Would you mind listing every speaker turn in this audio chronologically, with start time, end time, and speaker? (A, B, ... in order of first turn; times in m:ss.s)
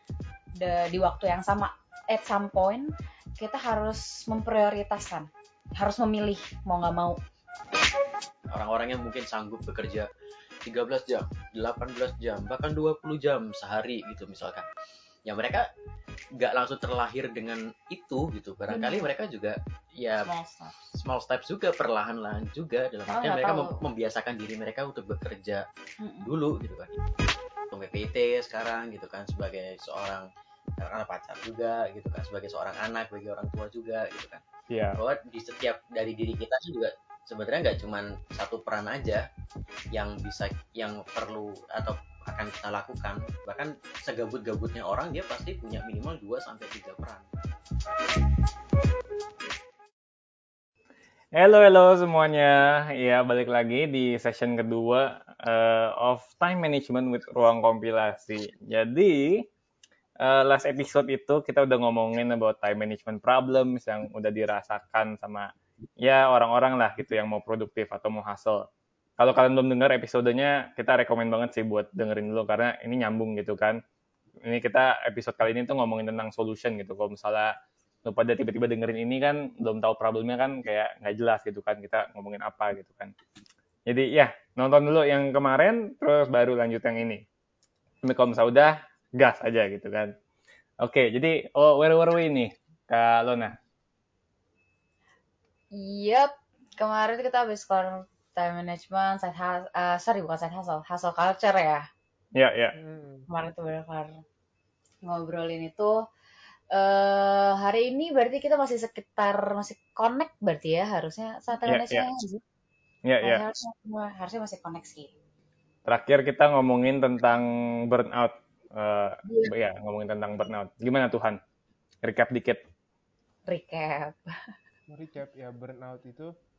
0:00.6-0:07.2 A
0:08.5-0:10.1 B
0:10.6-0:14.7 B
0:15.2-0:15.7 B
0:16.4-0:20.3 B
0:18.7-0:19.1 A
0:20.2-0:20.8 A
0:20.9-0:25.6 B
0:23.1-0:23.8 A
0:26.0-0:26.3 A
0:26.2-0:27.0 B
0:27.7-0:30.3 B
0:30.8-0:34.4 B
0:34.7-0:35.0 C
0:35.0-0:39.2 B
0:39.9-0:47.3 B
0:51.3-0:59.5 C
1:00.2-1:08.6 C
1:09.2-1:13.8 C
1:14.4-1:17.5 C
1:18.0-1:23.1 C
1:23.9-1:27.2 C
1:28.0-1:30.1 C
1:30.8-1:33.6 C
1:35.7-1:41.9 A
1:42.3-1:42.8 C
1:42.7-1:43.3 D
1:43.3-1:44.2 A
1:45.0-1:45.9 A
1:46.7-1:52.4 A
1:51.7-1:52.0 C
1:53.0-1:53.4 C
1:53.2-1:55.1 A
1:55.8-2:01.4 C
1:59.2-1:59.5 A
2:02.0-2:02.6 C
2:03.5-2:04.4 A
2:04.9-2:06.3 D